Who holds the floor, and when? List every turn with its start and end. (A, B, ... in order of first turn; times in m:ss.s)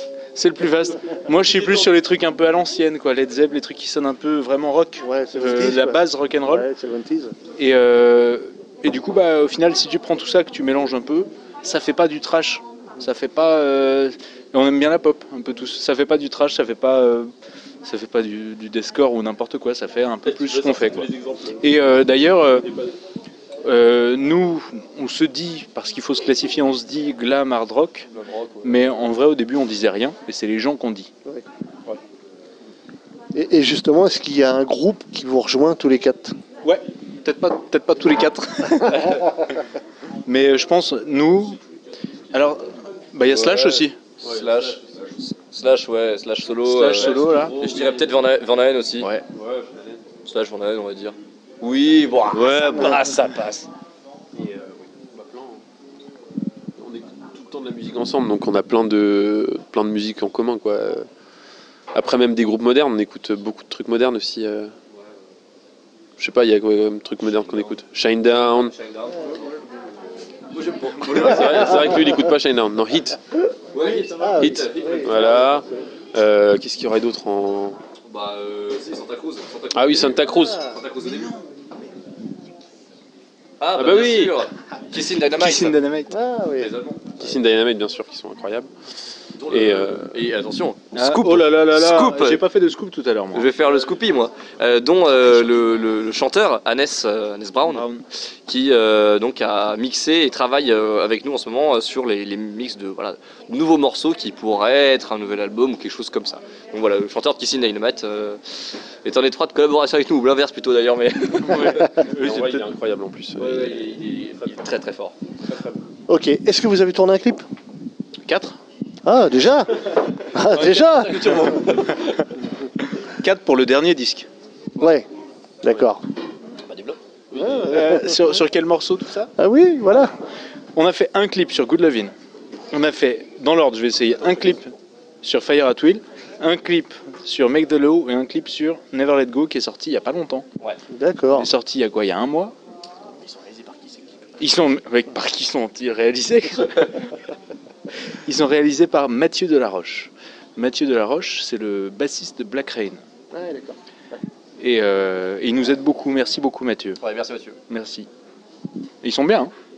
0:00.4-0:06.7 A
0:05.0-0:07.4 B
0:07.6-0:17.3 A
0:17.8-0:22.7 A
0:20.3-0:21.7 C
0:23.6-0:28.1 A
0:28.2-0:28.7 D
0:28.6-0:31.1 A
0:33.4-0:36.4 B
0:36.6-0:39.4 A
0:40.3-0:41.6 A
0:42.3-0:44.0 A
0:43.3-0:49.1 D
0:44.2-0:44.8 C
0:46.6-0:47.6 A
0:47.0-0:48.2 C
0:49.3-0:50.0 C
0:50.2-0:53.0 D
0:52.3-0:53.7 A
0:54.4-0:55.6 C
0:56.8-1:01.1 C
1:01.9-1:04.7 C
1:06.2-1:08.7 C
1:07.2-1:07.8 D
1:08.3-1:09.5 D
1:10.5-1:12.1 D
1:11.1-1:13.2 C
1:13.7-1:15.6 D
1:13.9-1:15.6 B
1:14.4-1:17.8 C
1:18.1-1:21.4 D
1:19.7-1:20.7 C
1:23.6-1:25.8 D
1:23.8-1:24.5 C
1:25.4-1:26.1 A
1:26.1-1:26.8 B
1:26.6-1:27.3 D
1:27.2-1:28.7 C
1:29.4-1:32.4 D
1:29.5-1:30.2 C
1:30.9-1:33.5 A
1:33.3-1:37.9 D
1:37.7-1:38.0 A
1:38.5-1:48.4 D
1:49.0-1:52.1 D
1:51.5-1:52.7 A
1:52.1-1:54.0 C
1:53.4-1:55.2 D
1:56.1-1:57.4 B
1:58.3-1:58.6 A
1:59.0-2:01.5 B
2:00.3-2:02.2 D
2:03.1-2:04.3 A
2:04.8-2:05.1 B
2:05.6-2:06.0 B
2:06.7-2:07.0 D
2:07.4-2:08.3 B
2:07.5-2:09.3 A
2:09.4-2:10.1 B
2:10.8-2:12.1 A
2:12.7-2:14.7 A
2:15.2-2:20.4 A
2:20.9-2:21.5 B
2:21.4-2:22.5 A
2:24.4-2:27.2 A
2:28.2-2:33.0 A
2:33.3-2:33.8 B
2:34.6-2:37.0 A
2:37.0-2:37.6 D
2:37.7-2:38.1 A
2:39.0-2:39.5 A